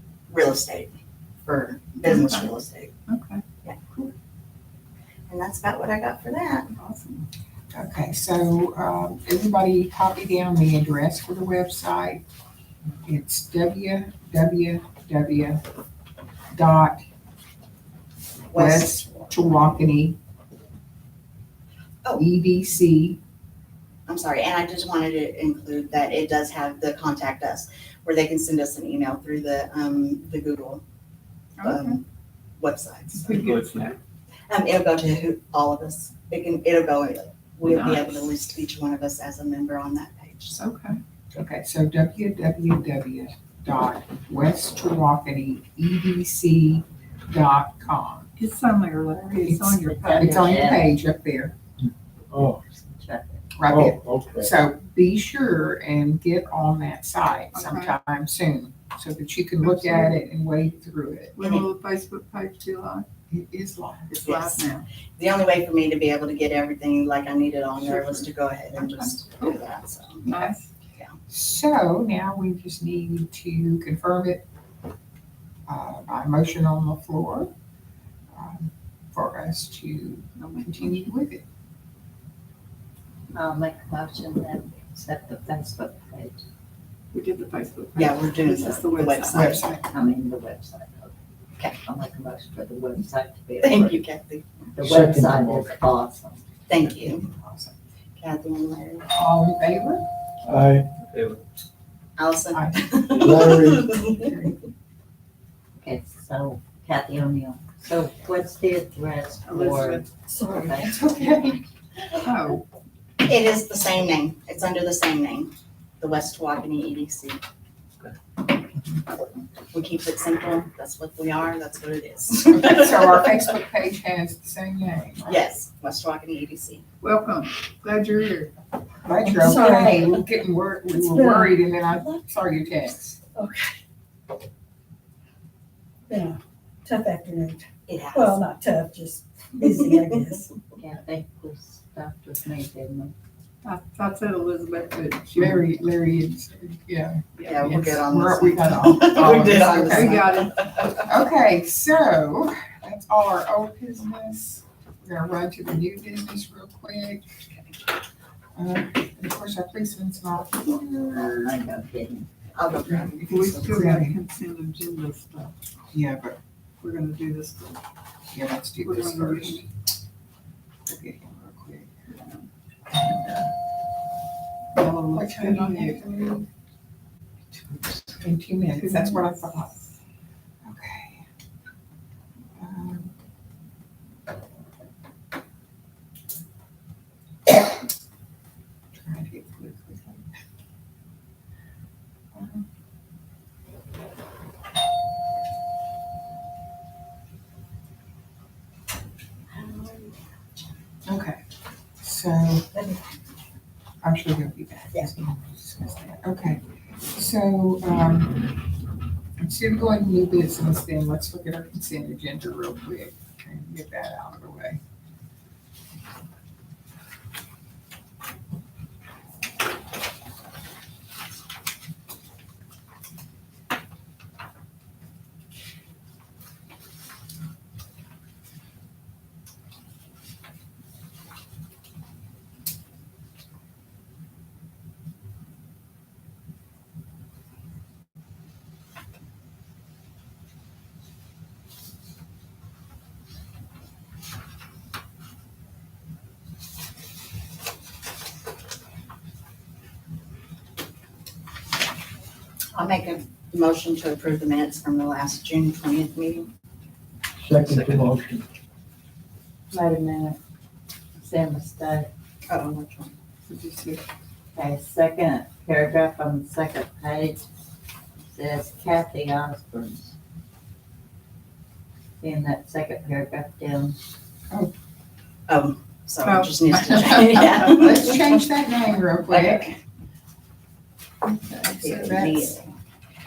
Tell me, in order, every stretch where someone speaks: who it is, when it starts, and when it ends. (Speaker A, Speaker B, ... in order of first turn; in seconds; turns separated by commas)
Speaker A: 0.3-2.9, Speaker B: 2.0-2.5, Speaker B: 3.1-4.1, Speaker A: 5.3-6.7, Speaker B: 6.8-7.3, Speaker C: 7.7-12.2, Speaker C: 13.0-15.6, Speaker C: 16.5-17.1, Speaker A: 18.5-19.4, Speaker C: 18.5-20.2, Speaker C: 22.2-23.2, Speaker A: 24.1-30.8, Speaker B: 31.6-32.0, Speaker A: 31.6-32.0, Speaker A: 32.6-33.5, Speaker B: 33.2-34.0, Speaker A: 34.5-40.6, Speaker B: 37.6-38.4, Speaker B: 40.5-41.0, Speaker C: 41.3-48.3, Speaker B: 48.4-50.4, Speaker C: 49.5-51.5, Speaker D: 49.8-50.8, Speaker E: 52.3-52.6, Speaker D: 52.7-53.4, Speaker C: 53.5-61.3, Speaker E: 53.6-54.5, Speaker B: 57.5-58.0, Speaker B: 59.6-60.2, Speaker B: 61.4-63.0, Speaker A: 61.4-61.7, Speaker C: 63.3-64.1, Speaker B: 64.1-64.9, Speaker A: 64.2-64.7, Speaker A: 65.2-71.2, Speaker B: 67.8-69.6, Speaker B: 70.2-70.7, Speaker C: 71.3-74.5, Speaker C: 75.7-77.5, Speaker C: 78.3-81.4, Speaker B: 80.4-81.1, Speaker D: 83.3-86.4, Speaker B: 87.1-89.7, Speaker A: 88.0-89.7, Speaker C: 89.3-89.8, Speaker D: 89.8-91.1, Speaker D: 91.7-94.1, Speaker A: 93.6-94.7, Speaker D: 94.8-96.4, Speaker E: 94.8-95.8, Speaker A: 96.7-97.3, Speaker C: 97.0-97.7, Speaker A: 98.2-99.1, Speaker C: 99.1-100.0, Speaker E: 100.5-101.1, Speaker A: 102.2-104.3, Speaker C: 102.5-103.1, Speaker E: 103.1-104.0, Speaker C: 104.1-104.6, Speaker D: 105.8-110.1, Speaker B: 109.5-110.8, Speaker C: 110.4-111.6, Speaker D: 110.6-111.5, Speaker B: 112.2-112.6, Speaker A: 113.2-117.4, Speaker A: 119.7-123.4, Speaker C: 122.5-125.4, Speaker A: 125.3-126.8, Speaker B: 127.0-128.5, Speaker C: 129.0-133.2, Speaker F: 129.3-130.1, Speaker F: 130.9-131.5, Speaker F: 133.3-133.7, Speaker F: 136.1-140.5, Speaker A: 137.9-138.4, Speaker D: 140.8-143.1, Speaker B: 143.6-145.7, Speaker C: 145.3-150.3, Speaker A: 147.4-151.0, Speaker B: 149.8-150.5, Speaker C: 151.0-157.4, Speaker A: 157.5-157.8, Speaker C: 158.6-161.6, Speaker D: 161.1-162.3, Speaker A: 162.5-163.9, Speaker C: 162.9-164.2, Speaker B: 163.2-165.5, Speaker C: 165.9-166.4, Speaker B: 166.8-167.8, Speaker C: 168.3-169.7, Speaker B: 168.8-169.7, Speaker C: 170.8-171.9, Speaker B: 172.1-172.5, Speaker C: 172.9-173.5, Speaker B: 174.8-176.1, Speaker C: 174.8-176.5, Speaker C: 178.1-179.7, Speaker B: 178.8-179.8, Speaker C: 180.6-181.2, Speaker C: 182.6-183.1, Speaker C: 188.9-190.3, Speaker C: 192.3-192.7, Speaker A: 199.5-200.2, Speaker C: 201.1-201.4, Speaker C: 202.0-202.7, Speaker A: 202.7-203.0, Speaker C: 204.0-208.6, Speaker C: 209.4-214.8, Speaker A: 252.7-256.5, Speaker E: 257.4-258.4, Speaker D: 259.7-260.4, Speaker D: 261.2-262.1, Speaker A: 262.5-263.1, Speaker B: 263.5-264.0, Speaker D: 264.6-267.4, Speaker D: 268.3-270.1, Speaker D: 272.2-273.9, Speaker A: 275.5-278.4, Speaker B: 276.2-277.3, Speaker C: 276.8-279.7, Speaker A: 279.3-279.8, Speaker C: 281.2-282.6, Speaker A: 281.8-282.8